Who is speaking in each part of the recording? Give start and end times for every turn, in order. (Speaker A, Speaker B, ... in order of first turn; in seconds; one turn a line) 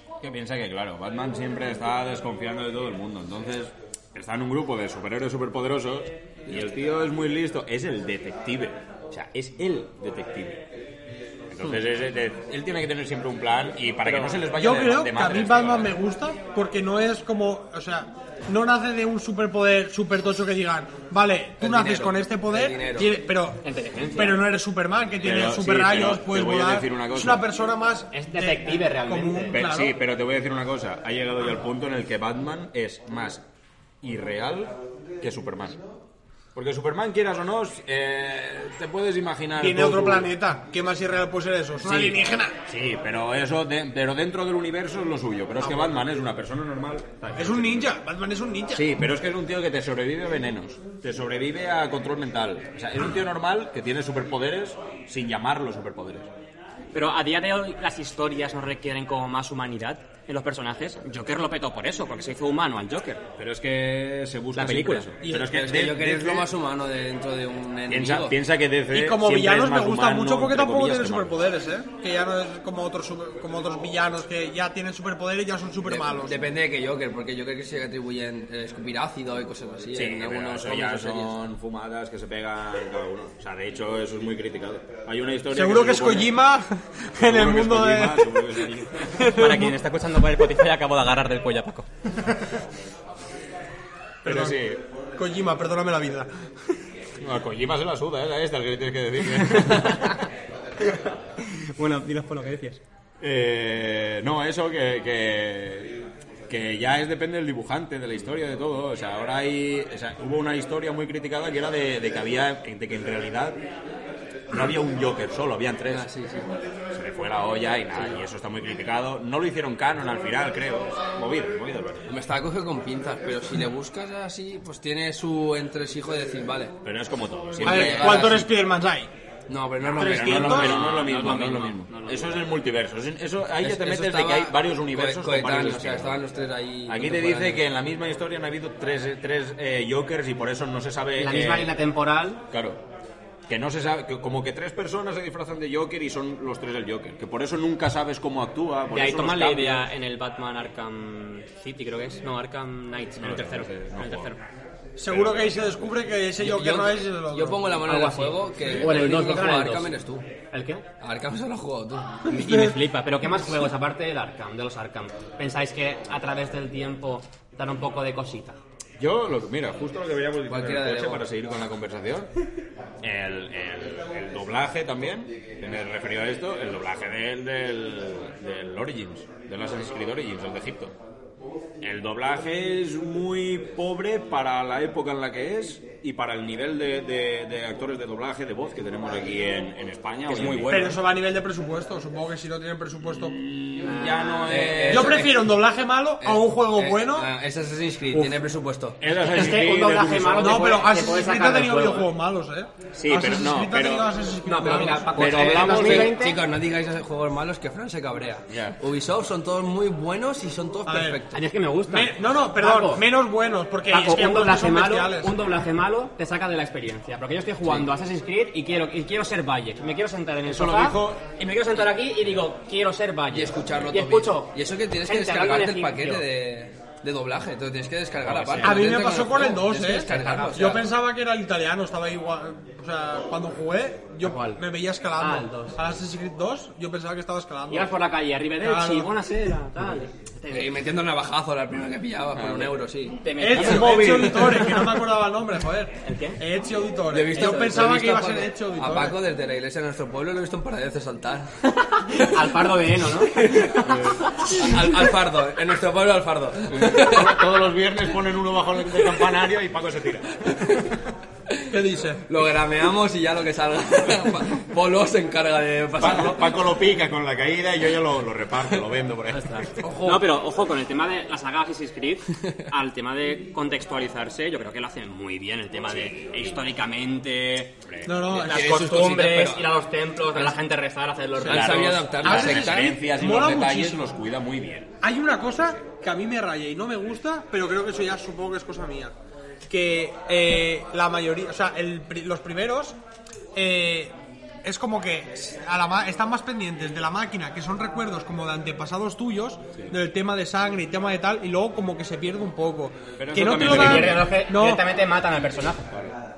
Speaker A: 0.2-10.6
Speaker A: 11.5-15.9
Speaker B: 14.0-14.4
Speaker C: 14.6-23.6
Speaker D: 21.6-23.1
Speaker B: 23.6-24.4
Speaker C: 24.1-29.9
Speaker A: 25.2-27.4
Speaker B: 28.1-29.6
Speaker A: 29.5-33.4
Speaker A: 34.0-35.8
Speaker A: 36.5-40.3
Speaker C: 39.6-42.5
Speaker A: 41.8-47.9
Speaker C: 47.4-48.9
Speaker A: 48.7-56.3
Speaker B: 56.9-63.2
Speaker A: 63.4-66.5
Speaker B: 64.5-65.1
Speaker D: 65.3-68.4
Speaker A: 67.9-71.3
Speaker C: 68.9-76.4
Speaker D: 75.8-81.3
Speaker A: 79.9-86.4
Speaker C: 85.5-88.5
Speaker A: 87.2-89.2
Speaker C: 89.1-89.7
Speaker B: 89.2-91.9
Speaker C: 94.2-94.6
Speaker A: 94.2-94.8
Speaker C: 95.2-96.3
Speaker A: 97.2-100.1
Speaker B: 99.4-100.2
Speaker B: 100.9-102.8
Speaker A: 103.2-113.6
Speaker A: 114.5-116.0
Speaker D: 115.9-116.5
Speaker A: 116.9-122.0
Speaker D: 122.1-126.7
Speaker A: 126.8-128.5
Speaker D: 127.6-128.5
Speaker C: 127.6-129.1
Speaker D: 129.5-130.7
Speaker A: 129.8-136.2
Speaker C: 130.0-130.8
Speaker B: 130.4-132.4
Speaker D: 133.6-137.6
Speaker A: 136.8-141.7
Speaker B: 141.2-142.4
Speaker A: 142.5-142.8
Speaker A: 143.5-149.8
Speaker B: 148.9-154.4
Speaker A: 153.2-154.3
Speaker C: 155.0-157.7
Speaker A: 155.1-155.6
Speaker D: 156.4-160.2
Speaker B: 157.8-160.0
Speaker B: 160.5-160.8
Speaker D: 161.0-162.3
Speaker B: 162.3-168.6
Speaker A: 169.0-172.3
Speaker D: 170.5-171.2
Speaker A: 173.0-180.9
Speaker A: 181.8-191.0
Speaker B: 190.3-191.0
Speaker C: 190.7-193.4
Speaker A: 193.1-195.3
Speaker B: 193.8-194.5
Speaker D: 194.5-195.6
Speaker C: 194.9-197.3
Speaker D: 196.2-199.0
Speaker A: 199.0-200.8
Speaker B: 199.2-202.1
Speaker C: 200.4-205.2
Speaker A: 202.9-204.1
Speaker B: 204.4-206.4
Speaker A: 205.1-206.1
Speaker D: 205.2-211.4
Speaker A: 208.5-208.8
Speaker C: 210.8-211.2
Speaker B: 211.3-213.0
Speaker C: 211.9-215.3
Speaker B: 213.9-226.2
Speaker A: 220.5-221.2
Speaker D: 223.3-230.9
Speaker B: 228.3-229.1
Speaker A: 228.4-228.7
Speaker C: 228.6-237.9
Speaker B: 229.8-230.8
Speaker B: 234.2-234.6
Speaker B: 235.2-235.8
Speaker B: 237.7-240.7
Speaker C: 238.6-239.1
Speaker D: 240.5-243.2
Speaker A: 242.3-242.7
Speaker B: 243.2-244.1
Speaker C: 243.4-249.2
Speaker A: 243.5-244.9
Speaker B: 246.0-246.4
Speaker D: 247.1-251.5
Speaker B: 251.7-254.5
Speaker D: 252.2-252.5
Speaker D: 253.2-253.9
Speaker A: 253.8-254.1
Speaker D: 254.5-257.4
Speaker A: 256.7-261.0
Speaker D: 261.5-261.7
Speaker C: 261.7-262.2
Speaker D: 262.3-266.5
Speaker A: 266.0-269.6
Speaker B: 269.3-277.7
Speaker D: 269.8-270.2
Speaker A: 277.9-278.4
Speaker C: 278.1-278.7
Speaker B: 278.3-282.0
Speaker D: 278.4-279.7
Speaker D: 281.4-283.0
Speaker A: 281.4-284.9
Speaker C: 282.2-284.0
Speaker C: 285.0-289.1
Speaker C: 289.6-293.0
Speaker C: 293.5-304.8
Speaker A: 303.2-304.3
Speaker B: 303.6-305.9